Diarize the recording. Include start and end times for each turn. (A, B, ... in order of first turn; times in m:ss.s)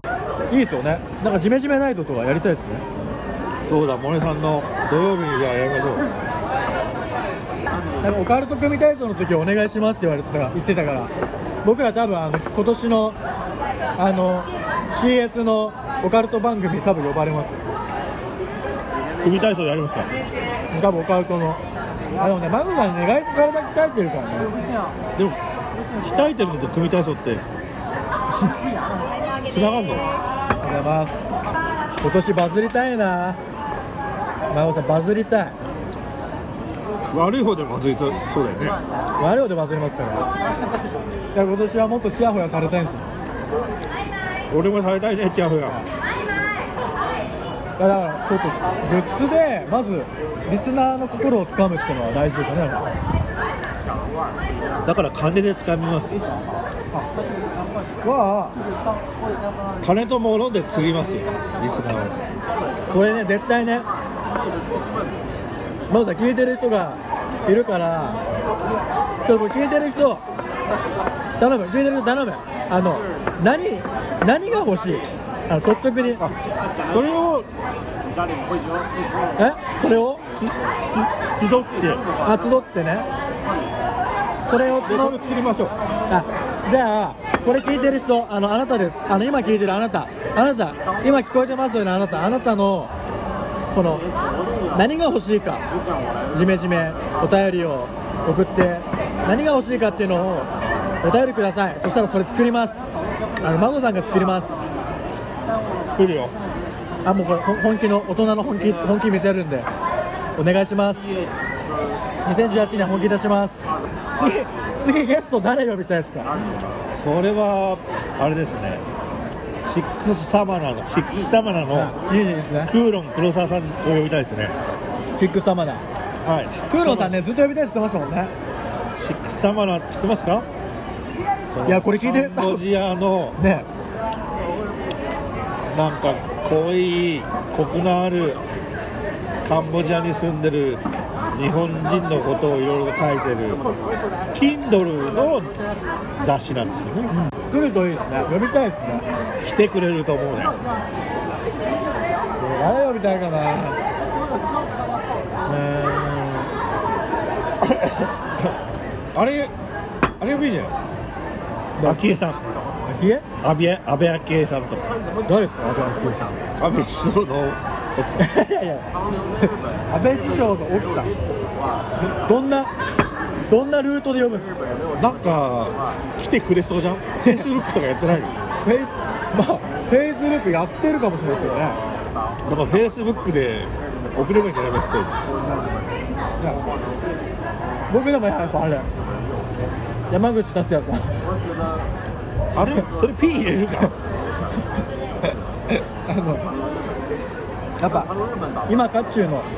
0:00.5-0:02.8 A
0:03.7-0:06.1 B
0:08.0-0:11.1 A
0:11.6-0:13.2 A
0:14.0-0:17.6 A
0:19.2-0:20.1 B
0:20.7-0:21.6 A
0:22.2-0:24.5 A
0:26.0-0:27.4 B
0:28.3-0:28.6 A
0:29.5-0:30.1 B
0:30.6-0:31.1 A
0:32.0-0:33.4 A
0:34.5-0:35.5 A
0:37.1-0:38.8 B
0:39.2-0:40.3 A
0:41.3-0:43.0 A
0:44.5-0:45.8 B
0:47.8-0:52.9 A
0:54.8-0:56.3 B
0:58.0-0:58.6 A
0:59.8-1:02.2 B
1:02.9-1:03.9 A
1:05.9-1:08.2 A
1:09.2-1:10.2 A
1:11.4-1:16.2 A
1:16.2-1:17.5 B
1:19.4-1:20.2 A
1:20.4-1:22.0 B
1:22.2-1:23.1 A
1:24.5-1:25.2 A
1:24.8-1:25.7 B
1:26.1-1:32.9 A
1:33.7-1:34.0 A
1:34.7-1:35.7 A
1:36.3-1:40.5 A
1:41.0-1:42.8 A
1:43.4-1:44.6 A
1:45.9-1:46.3 B
1:47.0-1:49.7 A
1:50.4-1:51.1 A
1:52.2-1:53.6 A
1:54.1-1:56.3 A
1:57.0-1:58.8 B
1:59.6-2:01.9 B
2:01.7-2:02.7 A
2:02.7-2:04.5 B
2:05.2-2:05.8 A
2:06.2-2:07.2 B
2:06.7-2:08.3 A
2:09.0-2:10.4 B
2:11.5-2:13.4 B
2:11.6-2:12.6 A
2:13.4-2:13.7 A
2:15.7-2:18.4 B
2:19.4-2:23.7 B
2:24.3-2:25.5 B
2:26.2-2:27.1 B
2:27.1-2:29.0 A
2:29.4-2:30.6 B
2:32.4-2:33.8 A
2:35.5-2:36.5 A
2:37.6-2:38.5 B
2:39.1-2:39.5 B
2:40.2-2:40.7 B
2:41.8-2:42.1 A
2:41.8-2:42.4 B
2:42.9-2:43.2 A
2:43.4-2:44.9 B
2:45.2-2:46.3 A
2:46.6-2:48.3 B
2:48.2-2:48.9 A
2:49.4-2:51.1 A
2:52.2-2:52.7 A
2:53.5-2:54.5 A
2:55.0-2:58.3 B
2:58.6-3:01.8 A
3:02.4-3:05.2 B
3:05.4-3:05.7 A
3:07.9-3:08.9 A
3:10.1-3:11.1 A
3:12.5-3:13.9 B
3:15.7-3:16.5 A
3:17.8-3:18.1 A
3:18.7-3:19.5 A